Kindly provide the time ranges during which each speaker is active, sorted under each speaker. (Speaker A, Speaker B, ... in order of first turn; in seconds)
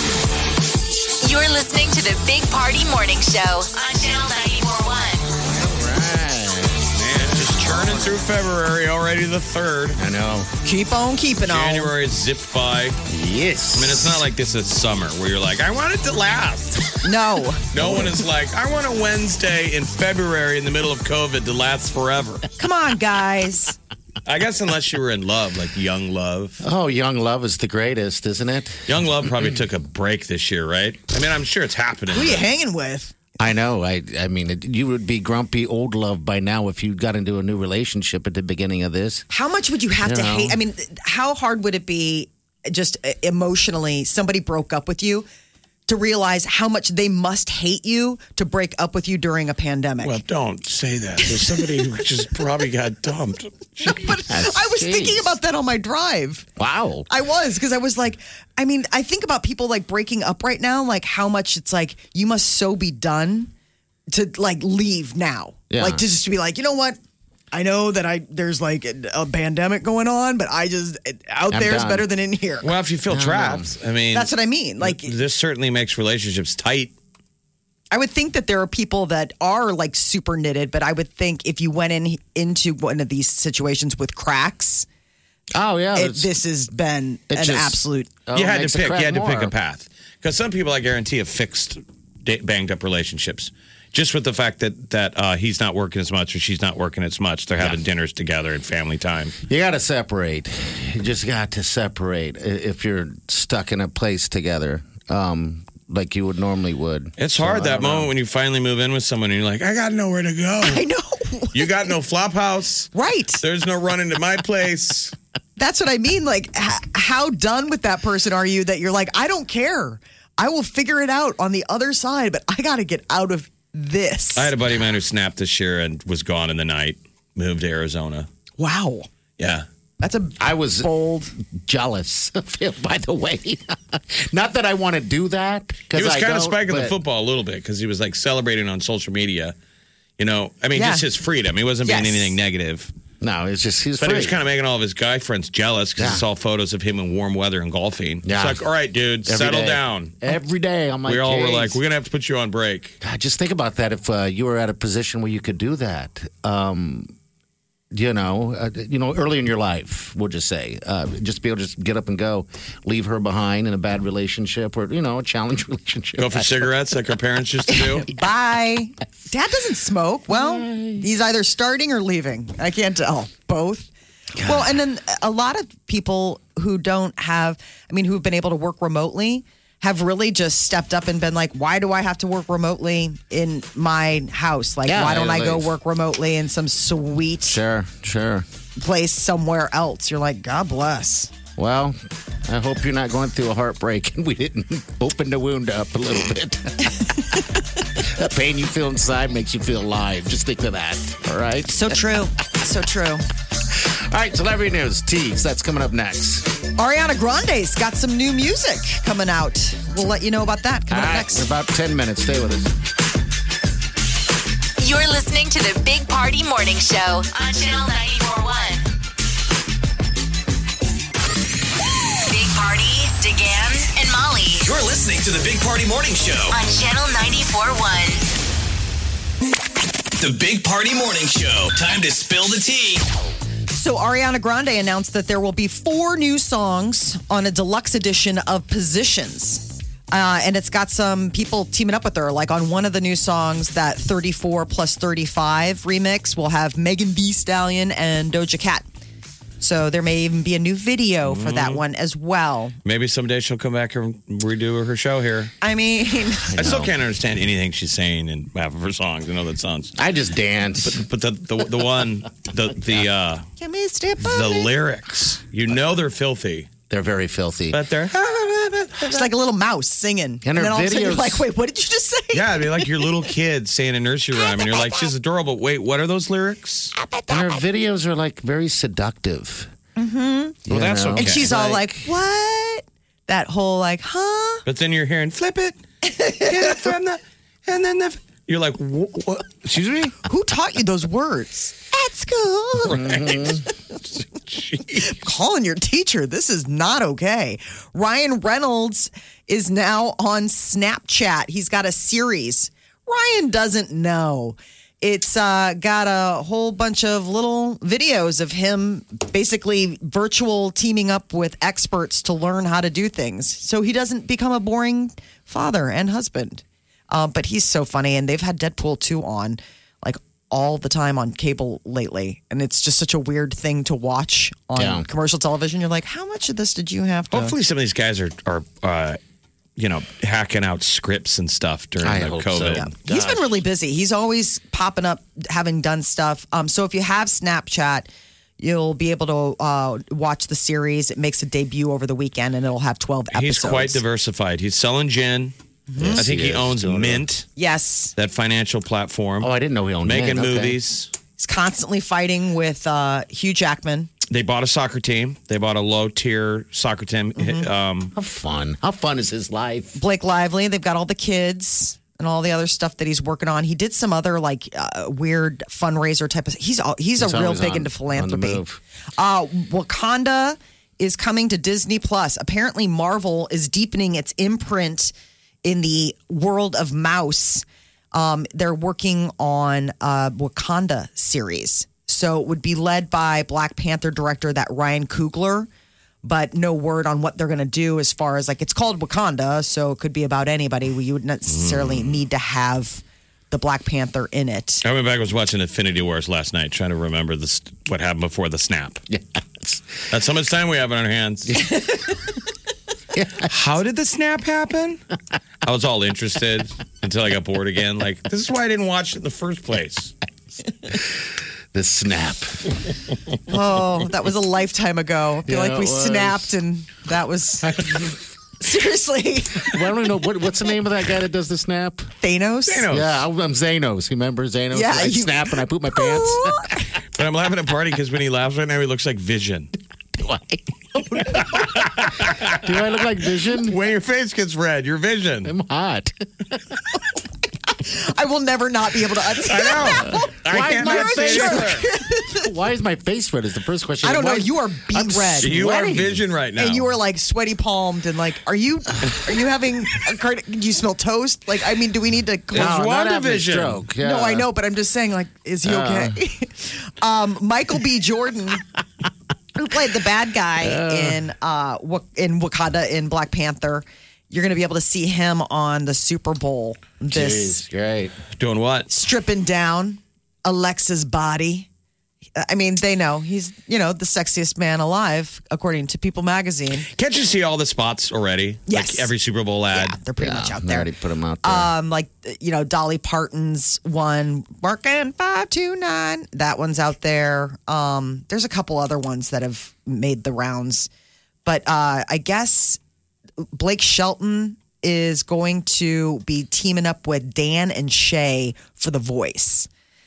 Speaker A: 1.2-5.3, 214.8-218.9, 222.3-224.7, 226.5-228.3
Speaker B: 5.5-6.8, 7.4-8.1, 10.0-10.5, 13.1-14.2, 17.8-18.1, 26.6-29.6, 33.4-39.3, 40.0-40.6, 54.3-55.4, 56.6-57.1, 65.7-66.0, 71.5-72.1, 73.1-73.7, 85.5-86.3, 87.3-89.5, 99.5-108.1, 130.4-136.9, 143.2-144.4, 146.0-146.2, 148.2-148.6, 149.3-151.8, 153.0-157.1, 157.9-166.7, 170.3-171.1, 174.4-174.7, 184.9-185.7, 187.5-188.5, 191.6-197.0, 198.0-202.0, 203.7-206.5, 210.9-212.7, 256.5-256.9, 260.0-261.0, 266.9-267.8, 270.4-271.5, 277.3-279.7, 280.7-282.1, 292.8-293.6, 324.8-325.1, 332.0-333.4, 346.0-347.3, 349.4-350.8, 358.1-360.0, 367.2-368.8, 399.1-399.9, 403.1-403.5, 411.7-412.6, 415.5-416.5, 417.6-418.2, 419.6-422.1, 422.9-426.7, 430.2-431.6, 432.6-433.8, 435.4-436.1, 439.9-441.9, 442.4-446.2, 452.5-454.5, 455.6-456.2, 460.6-461.2, 467.1-468.1, 480.2-481.7
Speaker C: 6.9-10.0, 11.4-13.0, 13.7-16.8, 17.7-22.4, 24.3-26.6, 28.9-32.5, 50.0-53.9, 72.6-76.9, 88.3-99.3, 107.2-110.8, 111.5-115.1, 124.4-128.3, 129.4-129.7, 135.9-139.6, 140.2-142.9, 144.0-150.3, 151.1-153.0, 166.2-168.1, 251.2-251.8, 252.8-255.5, 256.6-259.9, 260.8-263.4, 264.2-266.7, 267.7-269.1, 272.3-276.9, 280.7-281.5, 284.7-285.8, 286.5-290.2, 293.0-293.4, 294.3-295.1, 327.3-329.2, 329.8-332.9, 343.3-345.5, 346.1-347.5, 348.2-349.5, 350.0-351.1, 354.3-358.1, 391.5-392.2, 394.8-399.0, 400.1-401.6, 403.5-405.0, 405.6-410.1, 422.7-423.2, 427.2-429.7, 431.4-432.6, 433.6-435.5, 439.5-441.9, 445.4-446.9, 452.5-453.8, 468.4-468.9, 476.9-480.0
Speaker D: 10.6-11.9, 17.0-17.9, 22.6-23.7, 32.1-33.2, 39.3-45.3, 45.9-50.2, 53.9-56.5, 57.1-63.5, 64.1-67.0, 67.5-72.7, 74.1-75.1, 77.9-84.9, 86.0-88.1, 110.6-111.6, 112.9-113.4, 115.6-124.5, 128.6-129.1, 130.0-131.3, 140.8-141.0, 141.8-142.3, 167.7-173.9, 174.4-187.6, 188.8-191.3, 201.7-203.2, 206.8-211.5, 233.7-248.9, 249.6-252.8, 255.6-256.6, 263.6-264.7, 269.0-273.1, 274.4-275.1, 277.0-277.5, 280.0-280.6, 281.2-284.6, 286.0-286.9, 290.3-293.3, 295.0-327.6, 332.8-338.1, 338.6-344.0, 345.9-346.2, 347.6-348.1, 351.4-354.1, 357.4-357.7, 360.0-368.6, 369.2-375.1, 375.6-385.7, 386.2-394.8, 413.5-417.8, 418.6-419.7, 422.2-422.9, 424.7-426.8, 437.8-442.4, 444.0-445.7, 446.6-452.8, 454.0-458.6, 459.6-467.6, 468.9-471.7, 472.4-476.9, 478.7-479.1, 479.7-480.9, 481.4-490.9, 491.4-492.8, 493.6-499.7
Speaker E: 224.6-226.6, 230.2-233.1